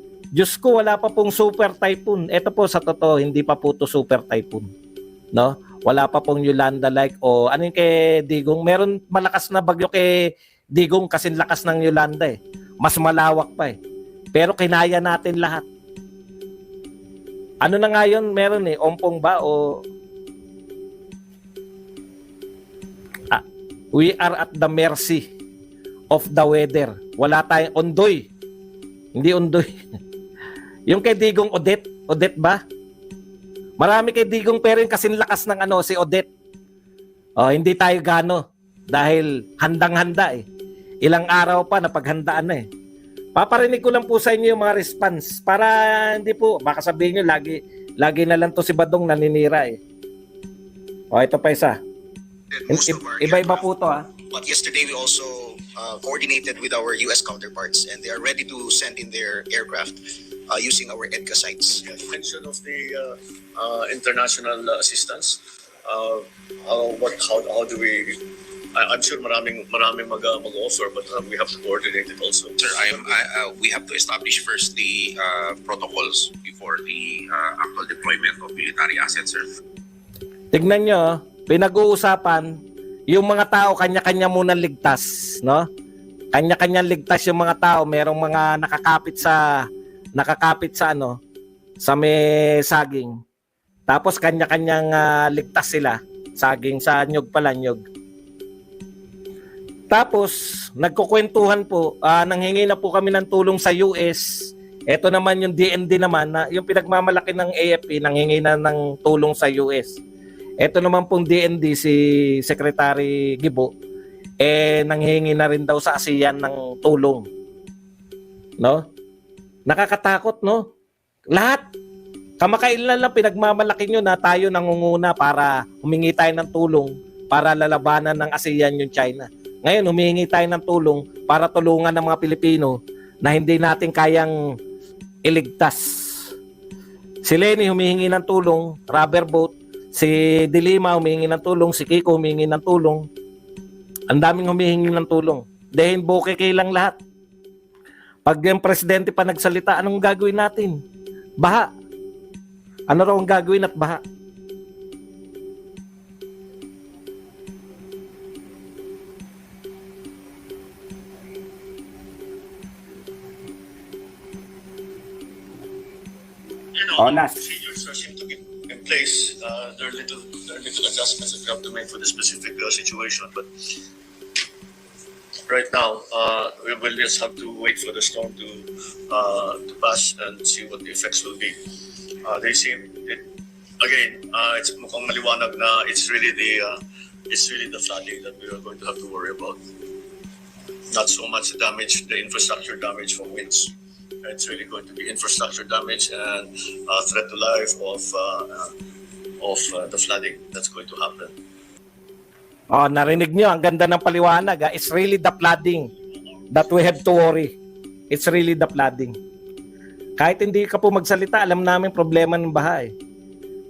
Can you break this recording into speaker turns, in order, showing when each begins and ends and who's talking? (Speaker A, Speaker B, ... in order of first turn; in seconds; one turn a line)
Speaker A: 0.3-4.7
Speaker A: 5.3-10.1
Speaker A: 10.7-13.8
Speaker A: 14.3-15.6
Speaker A: 17.6-19.6
Speaker A: 23.9-25.2
Speaker A: 26.1-28.3
Speaker A: 29.1-29.8
Speaker A: 30.9-32.6
Speaker A: 33.8-36.3
Speaker A: 37.4-38.4
Speaker A: 38.9-40.4
Speaker A: 41.0-42.6
Speaker A: 43.4-49.8
Speaker A: 51.1-51.8
Speaker B: 52.5-53.7
Speaker A: 52.7-54.0
Speaker B: 54.3-60.0
Speaker B: 60.5-61.8
Speaker C: 61.8-68.2
Speaker C: 68.7-72.6
Speaker D: 72.6-79.5
Speaker A: 80.5-82.5
Speaker A: 83.1-85.6
Speaker A: 86.3-89.4
Speaker A: 90.2-91.2
Speaker A: 91.8-93.1
Speaker A: 93.9-97.8
Speaker A: 99.9-110.0
Speaker A: 110.6-113.7
Speaker A: 114.4-117.2
Speaker A: 119.7-120.6
Speaker A: 121.3-121.6
Speaker A: 122.4-134.3
Speaker A: 135.2-136.1
Speaker A: 137.2-143.0
Speaker A: 144.1-146.9
Speaker A: 148.2-150.8
Speaker A: 152.9-154.0
Speaker C: 166.7-173.5
Speaker A: 167.0-167.4
Speaker C: 175.5-181.6
Speaker C: 182.2-183.2
Speaker C: 183.8-186.8
Speaker C: 187.3-189.6
Speaker C: 190.9-198.7
Speaker C: 199.4-201.3
Speaker A: 202.7-205.9
Speaker A: 206.5-207.5
Speaker A: 208.1-209.2
Speaker A: 210.2-212.9